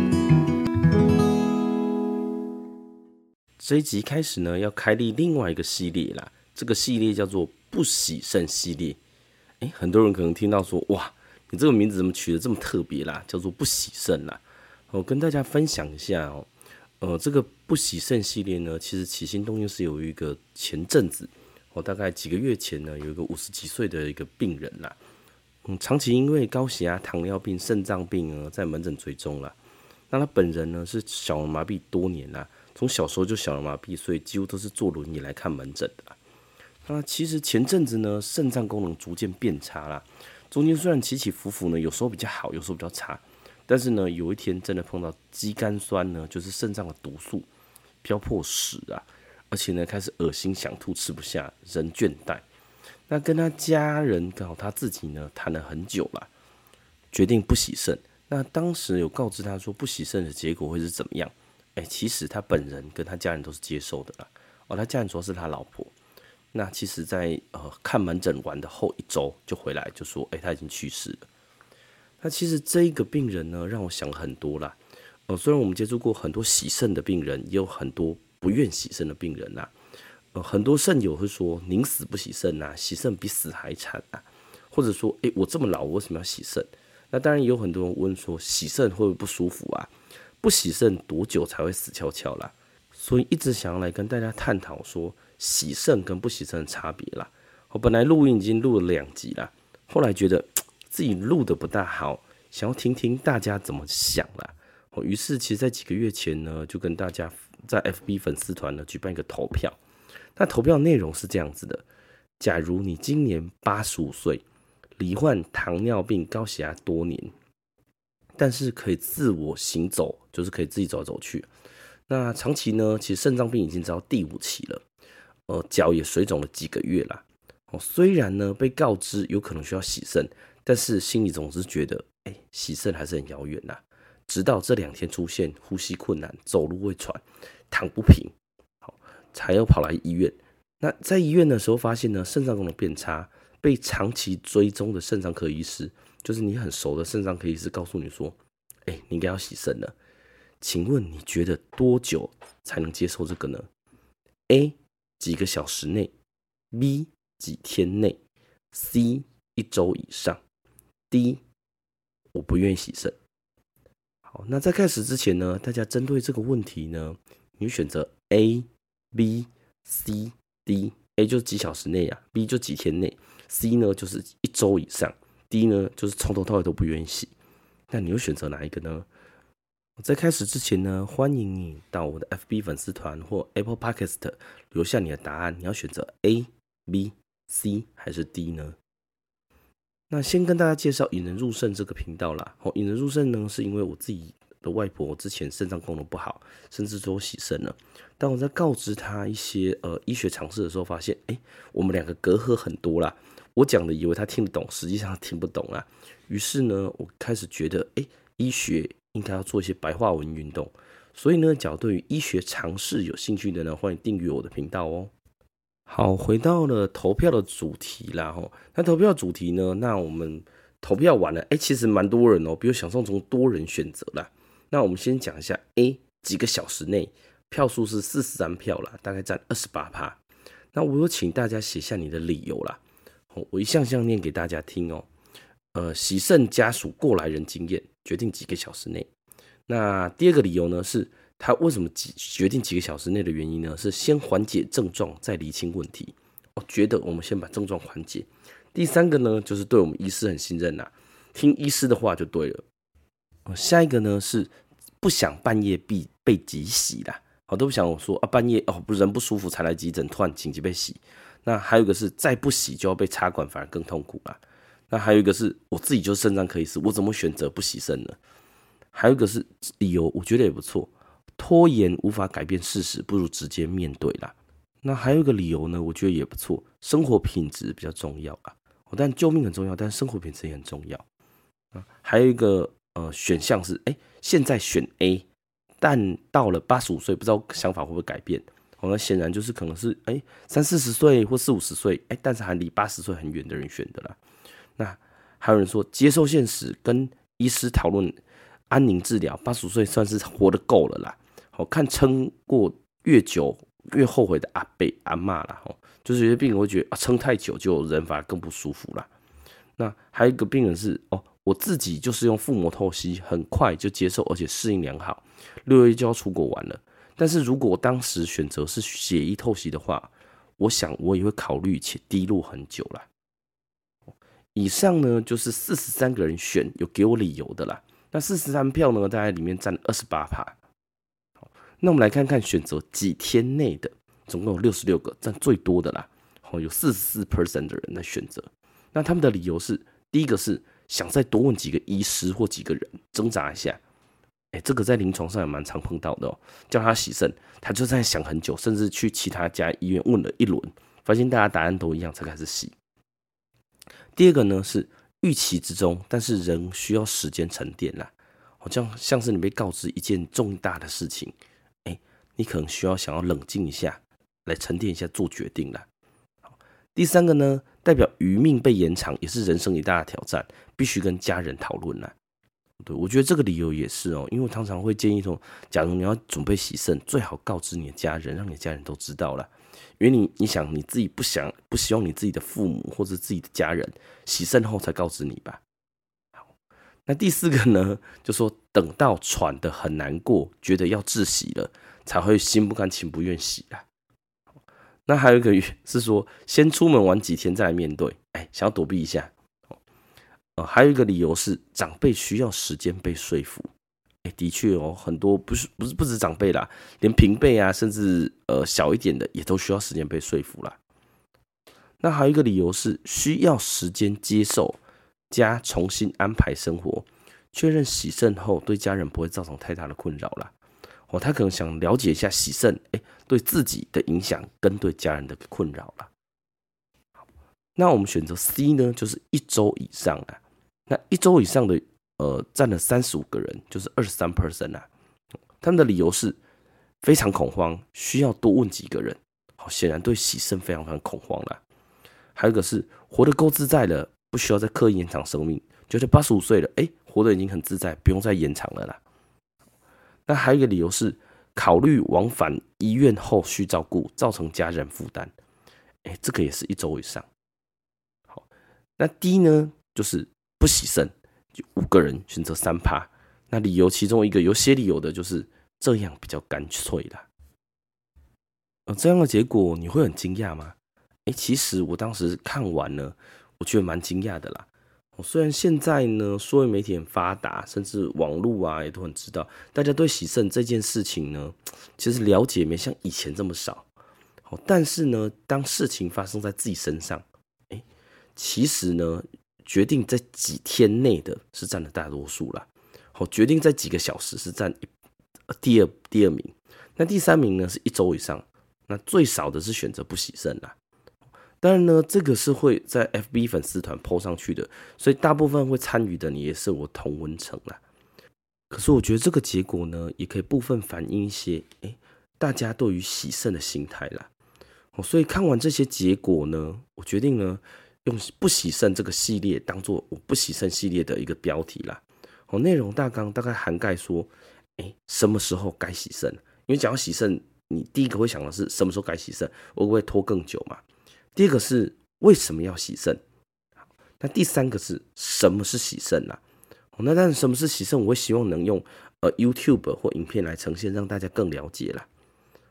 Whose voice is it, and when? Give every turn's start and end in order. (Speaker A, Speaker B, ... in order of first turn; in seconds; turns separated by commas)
Speaker A: 3.6-9.0, Speaker A: 9.6-16.5, Speaker A: 17.0-25.0, Speaker A: 25.6-29.6, Speaker A: 30.1-36.2, Speaker A: 36.9-47.5, Speaker A: 48.0-52.5, Speaker A: 53.1-56.3, Speaker A: 57.1-65.9, Speaker A: 66.5-71.3, Speaker A: 72.2-79.7, Speaker A: 80.3-109.8, Speaker A: 110.4-111.8, Speaker A: 112.4-114.5, Speaker A: 115.0-117.3, Speaker A: 118.4-121.5, Speaker A: 122.1-124.8, Speaker A: 125.5-149.9, Speaker A: 150.6-153.7, Speaker A: 154.5-156.1, Speaker A: 156.7-158.2, Speaker A: 158.7-160.4, Speaker A: 161.1-161.4, Speaker A: 162.3-163.2, Speaker A: 164.3-177.3, Speaker A: 177.9-179.1, Speaker A: 180.0-188.8, Speaker A: 190.1-215.1, Speaker A: 215.9-230.2, Speaker A: 230.7-232.8, Speaker A: 233.3-235.1, Speaker A: 235.7-239.1, Speaker A: 239.7-252.6, Speaker A: 253.5-254.5, Speaker A: 255.0-268.2, Speaker A: 268.9-281.1, Speaker A: 281.7-285.3, Speaker A: 285.8-294.2, Speaker A: 294.8-298.2, Speaker A: 298.7-309.1, Speaker A: 309.8-323.1, Speaker A: 324.6-330.6, Speaker A: 331.8-343.8, Speaker A: 344.5-352.7, Speaker A: 354.2-365.9, Speaker A: 366.9-372.1, Speaker A: 372.8-385.6, Speaker A: 387.1-393.9, Speaker A: 395.1-399.3, Speaker A: 400.6-403.7, Speaker A: 404.2-410.8, Speaker A: 412.0-420.5, Speaker A: 421.1-426.1, Speaker A: 427.8-434.9, Speaker A: 435.6-436.4, Speaker A: 437.0-441.6, Speaker A: 442.4-449.0, Speaker A: 450.3-455.3, Speaker A: 456.1-457.3, Speaker A: 459.0-467.3, Speaker A: 468.9-483.9, Speaker A: 484.4-487.8, Speaker A: 488.4-494.9, Speaker A: 495.5-500.8, Speaker A: 501.6-507.8, Speaker A: 508.7-514.3, Speaker A: 515.0-530.8, Speaker A: 531.4-533.2, Speaker A: 534.2-536.4, Speaker A: 537.0-542.1